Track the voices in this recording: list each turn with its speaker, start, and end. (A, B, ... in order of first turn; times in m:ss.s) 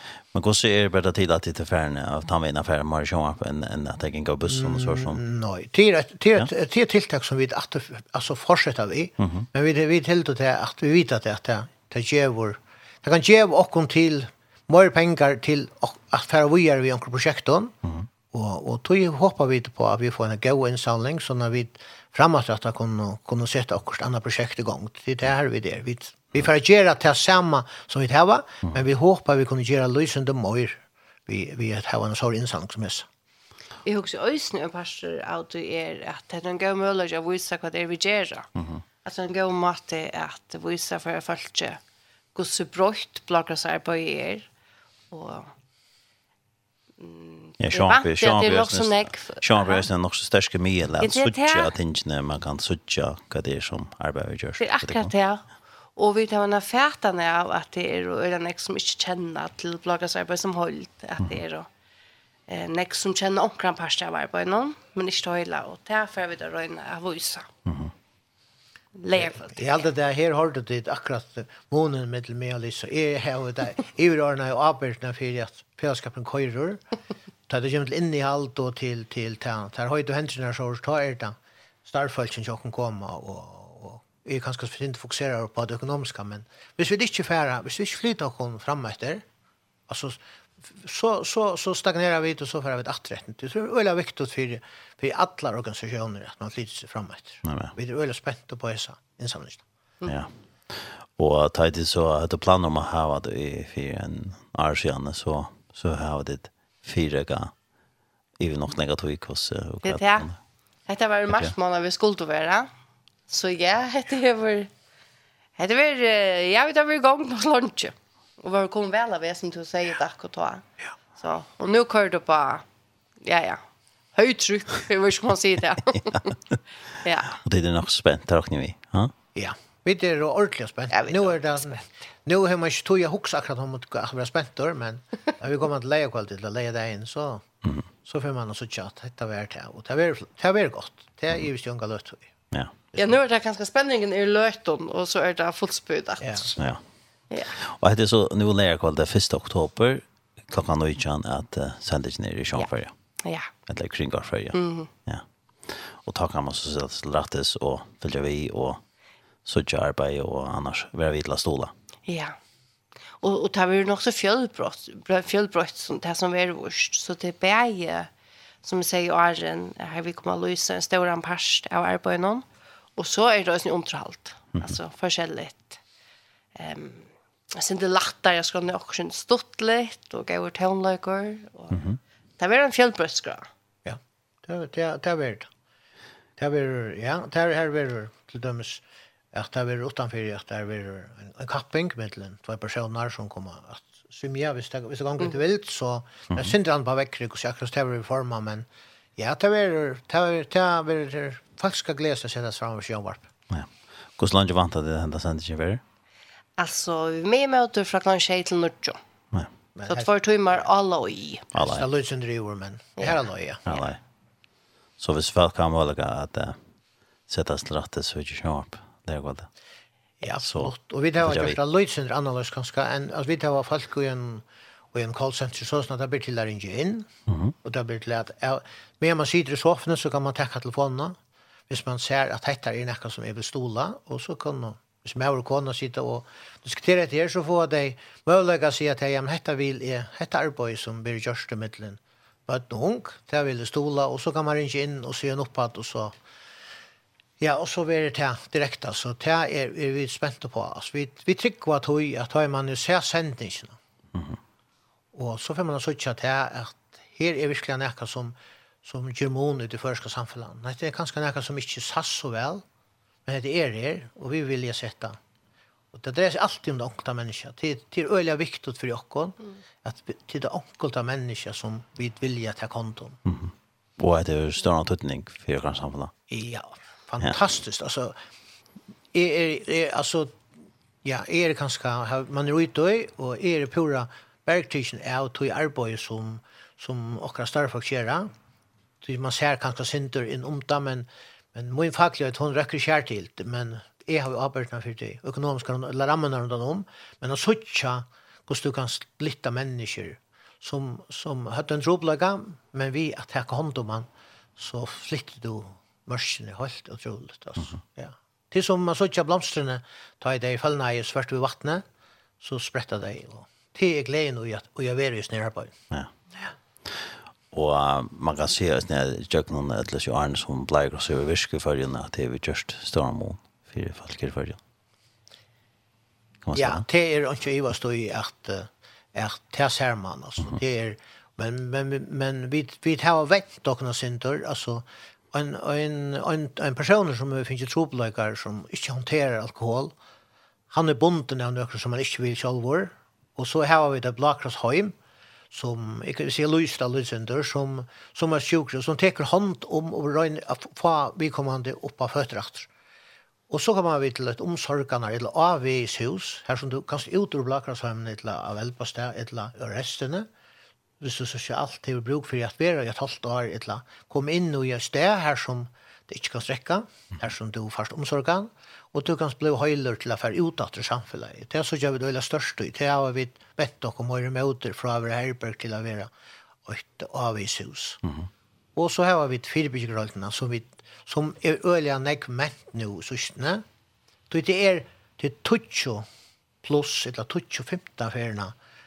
0:00.3-0:05.2 A
0:04.5-0:17.7 B
0:09.2-0:09.5 A
0:18.3-0:33.1 B
0:33.8-0:38.5 C
0:38.6-0:38.8 A
0:39.0-0:41.8 C
0:42.4-0:44.5 C
0:45.1-0:45.5 C
0:47.0-0:49.8 C
0:47.6-0:55.1 A
0:51.0-0:51.7 C
0:54.6-0:55.4 C
0:56.0-1:01.7 C
1:02.5-1:07.5 C
1:07.7-1:07.9 A
1:09.0-1:09.9 C
1:09.2-1:16.8 B
1:17.5-1:29.2 B
1:29.9-1:39.6 B
1:37.4-1:37.7 A
1:40.1-1:47.5 A
1:48.4-1:50.4 A
1:49.8-1:50.3 C
1:50.9-1:52.7 C
1:53.3-1:54.7 C
1:55.6-2:02.6 C
2:03.2-2:03.6 C
2:04.2-2:06.4 C
2:07.0-2:07.4 C
2:07.4-2:09.1 A
2:09.4-2:17.4 B
2:10.9-2:11.9 C
2:18.0-2:22.3 B
2:23.0-2:26.6 C
2:26.2-2:26.5 B
2:27.7-2:32.9 A
2:33.2-2:33.5 C
2:33.7-2:38.8 A
2:34.5-2:34.9 C
2:39.4-2:41.7 A
2:42.1-2:42.4 C
2:43.2-2:48.1 C
2:48.6-2:55.8 C
2:56.6-3:01.8 C
3:01.7-3:02.0 A
3:02.4-3:03.5 C
3:03.8-3:05.5 B
3:06.4-3:23.3 B
3:23.5-3:25.8 A
3:26.6-3:29.0 C
3:29.8-3:30.1 B
3:29.9-3:31.5 C
3:31.5-3:31.9 A
3:31.6-3:33.8 B
3:33.7-3:34.0 A
3:35.0-3:36.6 A
3:37.3-3:39.5 A
3:40.2-3:47.1 B
3:40.4-3:41.6 A
3:47.3-3:47.6 A
3:47.6-3:51.2 B
3:51.7-4:06.2 B
4:07.4-4:13.8 B
4:15.1-4:22.6 B
4:23.3-4:25.2 B
4:25.9-4:33.2 B
4:33.3-4:36.1 A
4:36.3-4:38.2 B
4:39.1-4:40.4 B
4:41.0-4:48.3 B
4:49.0-5:11.8 B
5:12.4-5:15.8 B
5:16.9-5:24.6 A
5:26.4-5:26.8 A
5:26.6-5:40.0 B
5:40.7-5:45.0 B
5:45.5-5:52.7 B
5:53.5-6:00.3 B
6:01.0-6:16.1 B
6:16.6-6:18.0 B
6:18.0-6:18.3 A
6:18.8-6:23.6 B
6:24.3-6:26.1 B
6:26.6-6:28.6 B